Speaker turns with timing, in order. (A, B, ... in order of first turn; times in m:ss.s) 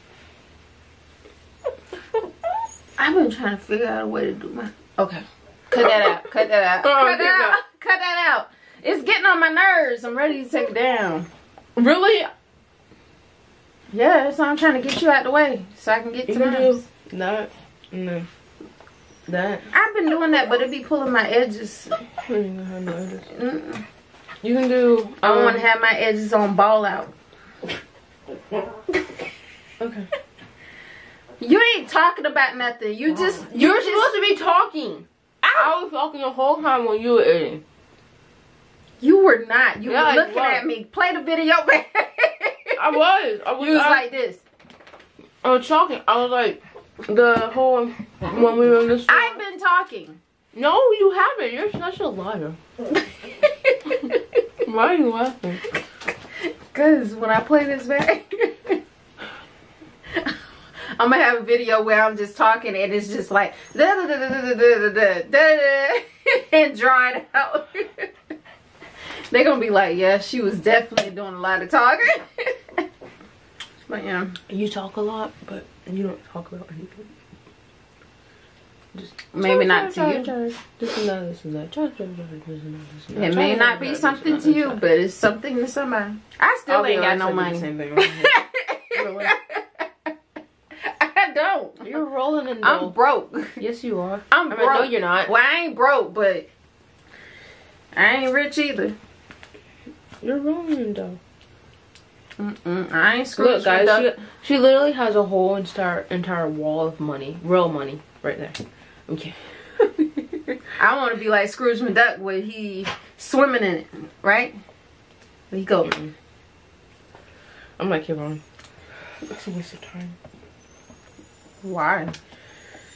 0:03.0-0:11.3 A
0:05.8-0:07.6 B
0:11.8-0:12.3 B
0:13.9-0:16.8 A
0:16.3-0:18.3 B
0:19.3-0:19.7 B
0:19.7-0:21.9 A
0:22.2-0:23.3 B
0:23.3-0:23.8 A
0:24.4-0:25.7 B
0:25.2-0:27.1 A
0:29.8-0:30.1 B
0:31.4-0:34.1 A
0:33.1-0:37.6 B
0:35.4-0:35.7 A
0:39.0-0:43.0 A
0:39.8-0:40.7 B
0:42.8-0:44.0 B
0:43.6-0:44.4 A
0:45.4-0:49.4 B
0:49.1-0:50.2 A
0:50.6-0:52.6 B
0:53.4-0:54.2 A
0:54.6-0:55.6 B
0:56.7-0:58.8 A
1:00.9-1:08.1 A
1:09.3-1:12.8 A
1:13.9-1:14.4 A
1:14.5-1:17.1 B
1:18.9-1:24.8 B
1:19.3-1:20.3 A
1:23.2-1:29.8 A
1:26.7-1:28.3 B
1:28.9-1:29.4 B
1:30.8-1:31.9 A
1:31.8-1:32.9 B
1:32.6-1:33.6 A
1:33.6-1:35.3 B
1:34.3-1:36.5 A
1:38.0-1:39.0 A
1:40.2-1:41.2 B
1:42.4-1:44.1 A
1:43.4-1:50.5 B
1:50.8-1:54.6 A
1:55.5-1:56.0 A
1:55.8-1:56.1 B
1:57.8-1:58.4 B
1:59.2-2:00.2 B
2:01.6-2:02.2 A